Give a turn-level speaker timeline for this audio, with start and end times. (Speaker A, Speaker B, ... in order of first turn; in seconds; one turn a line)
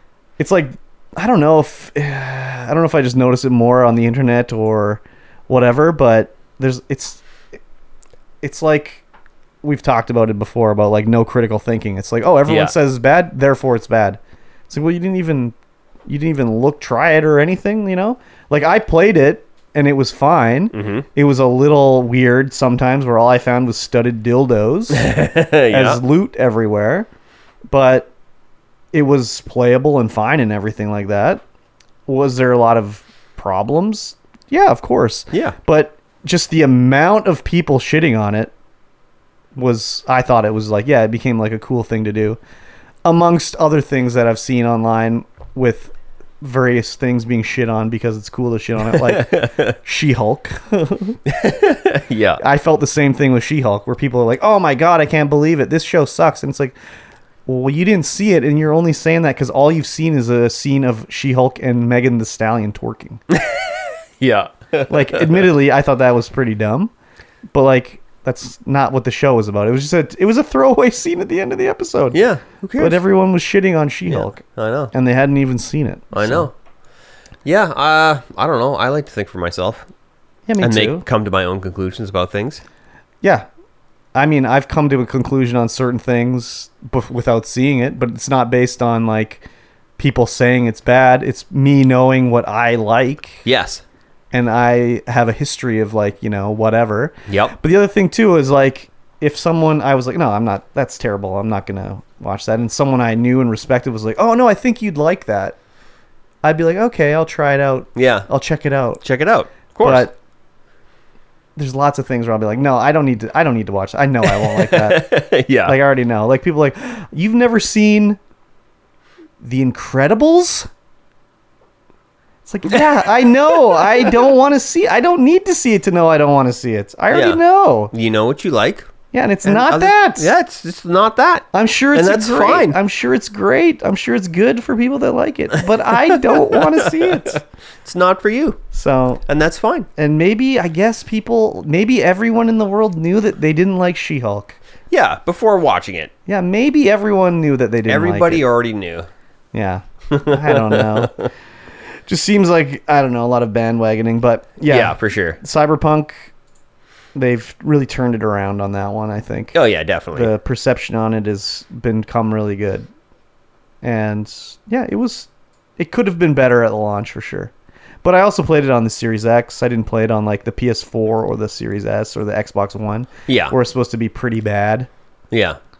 Speaker A: 0.4-7.2
Speaker A: 8.4-9.1
Speaker A: 9.6-15.6
Speaker B: 12.5-12.7
Speaker A: 16.1-25.1
Speaker B: 20.7-21.1
Speaker B: 24.9-26.0
Speaker A: 25.7-27.1
Speaker A: 27.7-28.1
Speaker A: 28.9-31.4
Speaker A: 32.1-38.5
Speaker A: 39.5-42.4
Speaker A: 43.0-51.2
Speaker B: 48.9-49.8
Speaker B: 51.3-52.4
Speaker A: 52.4-56.8
Speaker A: 57.5-63.2
Speaker B: 63.3-65.5
Speaker A: 64.9-66.9
Speaker A: 67.5-72.2
Speaker B: 72.1-73.0
Speaker A: 72.8-76.5
Speaker B: 74.1-74.9
Speaker B: 76.1-76.5
Speaker B: 77.5-79.9
Speaker A: 80.5-81.0
Speaker B: 80.6-82.6
Speaker A: 83.2-83.5
Speaker A: 84.2-89.5
Speaker A: 90.0-93.5
Speaker B: 93.5-93.8
Speaker A: 94.3-105.6
Speaker B: 97.3-97.5
Speaker A: 106.4-109.0
Speaker B: 108.0-108.3
Speaker B: 109.0-110.1
Speaker A: 109.8-110.2
Speaker A: 111.6-118.2
Speaker B: 114.2-115.8
Speaker A: 119.4-120.7
Speaker A: 122.5-127.9
Speaker B: 122.7-124.2
Speaker B: 127.1-127.4
Speaker B: 127.9-128.9
Speaker A: 129.1-130.3
Speaker B: 129.4-132.8
Speaker A: 131.5-137.4
Speaker B: 136.1-138.6
Speaker A: 138.7-139.2
Speaker B: 139.3-139.9
Speaker A: 140.0-144.6
Speaker B: 144.9-146.1
Speaker A: 146.3-148.5
Speaker B: 147.9-149.1
Speaker A: 149.5-151.1
Speaker B: 150.1-151.3
Speaker A: 152.1-156.3
Speaker B: 154.7-155.4
Speaker A: 157.2-159.6
Speaker B: 159.5-160.3
Speaker A: 160.1-162.9
Speaker A: 163.8-167.5
Speaker A: 168.0-174.9
Speaker B: 173.3-173.6
Speaker B: 175.3-175.6